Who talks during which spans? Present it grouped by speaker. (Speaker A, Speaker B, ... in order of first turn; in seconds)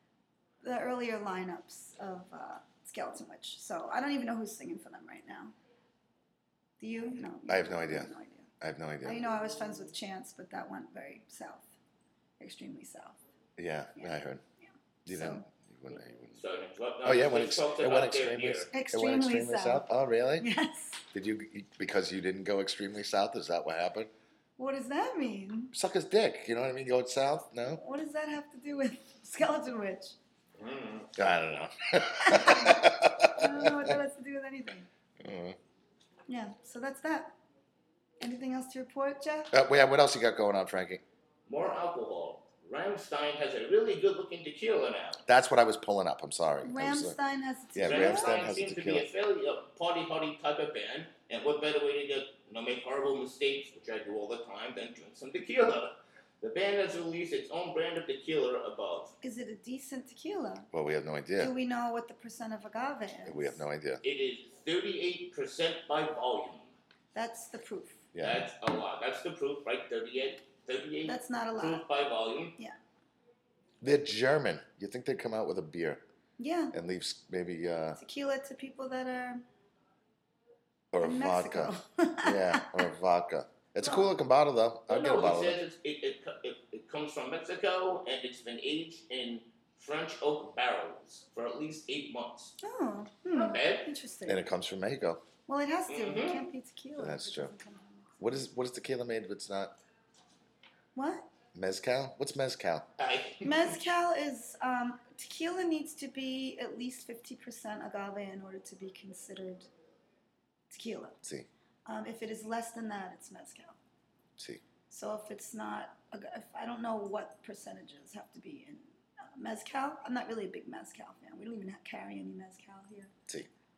Speaker A: 0.6-5.5, 6.8-8.5, 9.0-11.7, 12.4-13.2, 15.1-15.5, 18.7-19.9, 20.4-21.0, 24.6-25.7, 27.7-30.2, 32.2-34.9, 36.3-37.4, 38.2-39.5, 46.6-48.6, 59.2-60.7, 61.4-63.6, 67.1-68.0, 71.0-71.8, 76.4-76.7, 78.0-79.4, 81.0-82.9, 83.8-84.1, 92.6-94.4, 95.5-98.2, 101.0-101.3, 103.4-109.7, 110.7-111.2, 111.9-113.8, 114.9-123.1
Speaker B: 7.5-8.1, 8.6-9.2, 13.6-14.4, 15.1-16.3, 17.0-20.5, 21.1-24.1, 25.7-27.8, 31.1-34.0, 35.2-35.6, 39.5-41.0, 45.3-47.1, 47.8-49.1, 60.7-61.5, 63.3-64.0, 68.1-68.5, 73.8-76.0, 76.7-78.0, 80.9-85.6, 94.3-95.2, 97.0-97.5, 98.2-99.8, 101.5-102.9
Speaker C: 16.3-18.7, 30.6-31.1, 41.5-45.2, 47.9-59.1, 64.0-66.7, 68.2-72.6, 84.9-92.6, 93.3-93.9, 95.9-96.5, 103.0-103.8